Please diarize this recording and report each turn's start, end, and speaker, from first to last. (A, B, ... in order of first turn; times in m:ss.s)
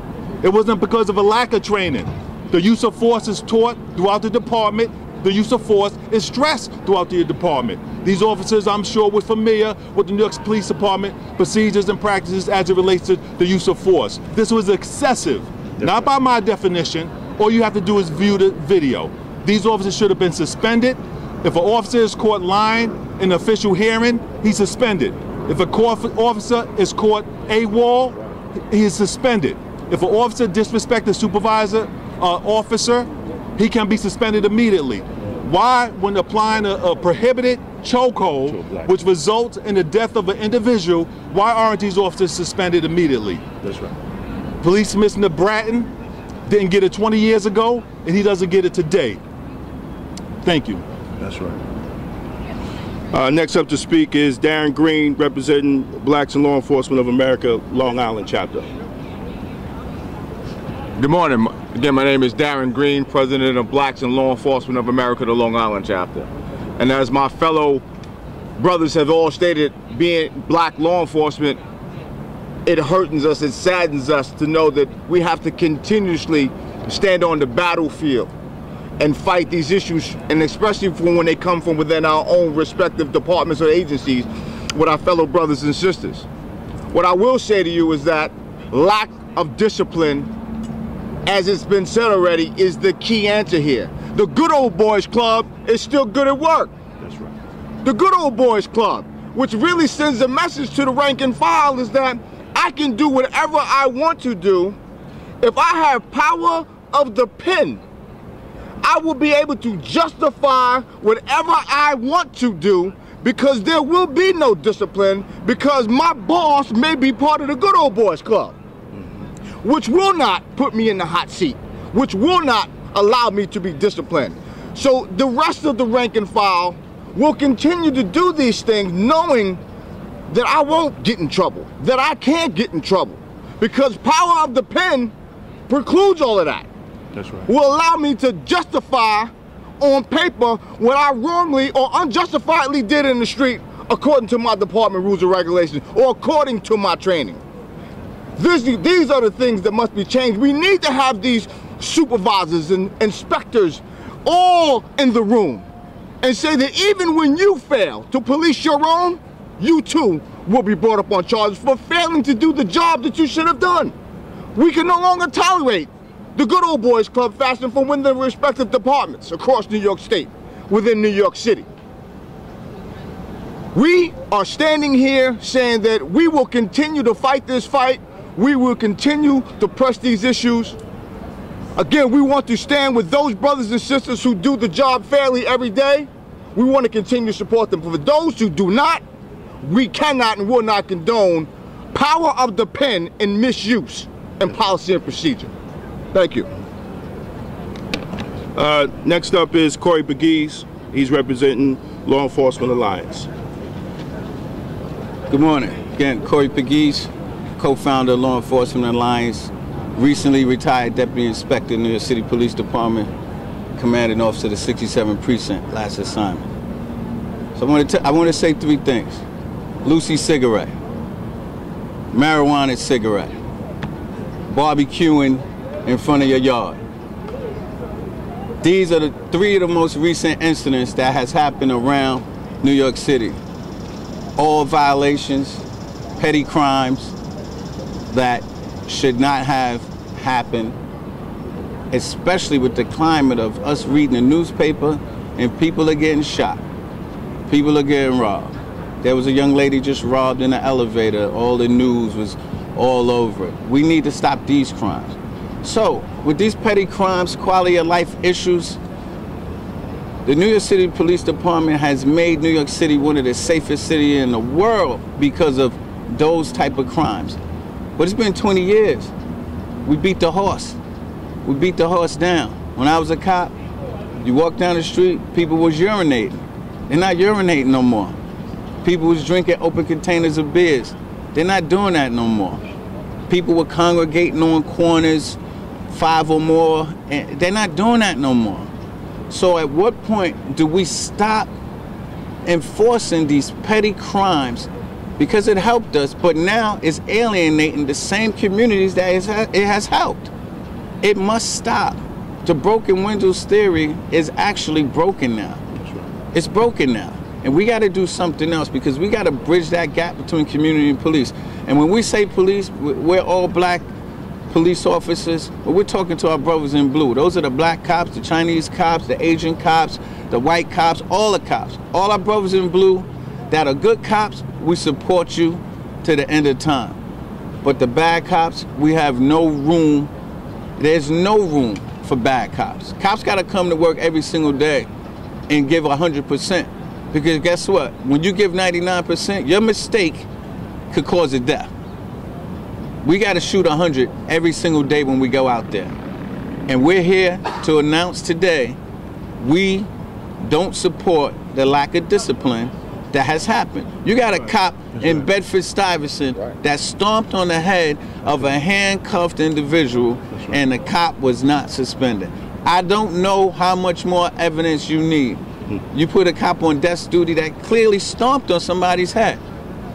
0:00.4-0:28.2 A
0:28.7-0:43.4 A
0:38.4-0:38.9 B
0:43.6-0:43.9 B
0:44.6-0:45.9 A
0:46.5-0:49.2 A
0:50.4-0:50.8 A
0:51.2-0:51.6 B
0:53.1-0:58.7 B
1:01.0-1:07.8 C
1:08.6-1:11.6 C
1:12.6-1:18.3 C
1:19.0-1:26.2 C
1:26.9-1:30.3 C
1:31.2-1:36.7 C
1:37.0-1:37.3 B
1:37.8-1:44.8 C
1:45.4-1:47.8 C
1:48.8-1:58.6 C
1:59.6-2:09.6 C
2:10.3-2:15.1 C
2:15.7-2:16.7 C
2:17.1-2:17.5 B
2:17.5-2:27.4 C
2:28.4-2:35.6 C
2:36.2-2:43.9 C
2:44.5-2:51.7 C
2:53.7-3:00.8 C
3:01.8-3:09.0 C
3:09.6-3:15.5 C
3:16.1-3:16.5 C
3:18.5-3:23.3 B
3:25.3-3:33.1 D
3:33.8-3:36.4 D
3:37.6-3:39.2 D
3:39.8-3:40.7 D
3:42.1-3:43.3 D
3:44.5-3:46.8 D
3:48.6-3:53.4 D
3:54.4-3:55.6 D
3:56.2-3:57.1 D
3:58.1-4:00.7 D
4:01.9-4:06.6 D
4:07.5-4:18.8 D
4:20.2-4:27.4 D
4:28.0-4:29.1 D
4:29.8-4:30.8 D
4:31.4-4:33.5 D
4:34.2-4:38.2 D
4:38.8-4:42.6 D
4:43.3-4:45.4 D
4:45.9-4:48.7 D
4:49.3-4:51.5 D
4:52.4-5:00.3 D
5:01.0-5:05.6 D
5:05.8-5:06.1 B
5:06.3-5:13.9 D
5:14.5-5:27.0 D
5:27.6-5:30.1 D
5:30.8-5:34.9 D
5:35.5-5:40.3 D
5:40.9-5:41.7 D
5:43.0-5:45.9 D
5:46.7-5:48.8 D
5:49.4-5:49.9 D
5:50.4-6:09.4 D
5:54.9-5:55.2 B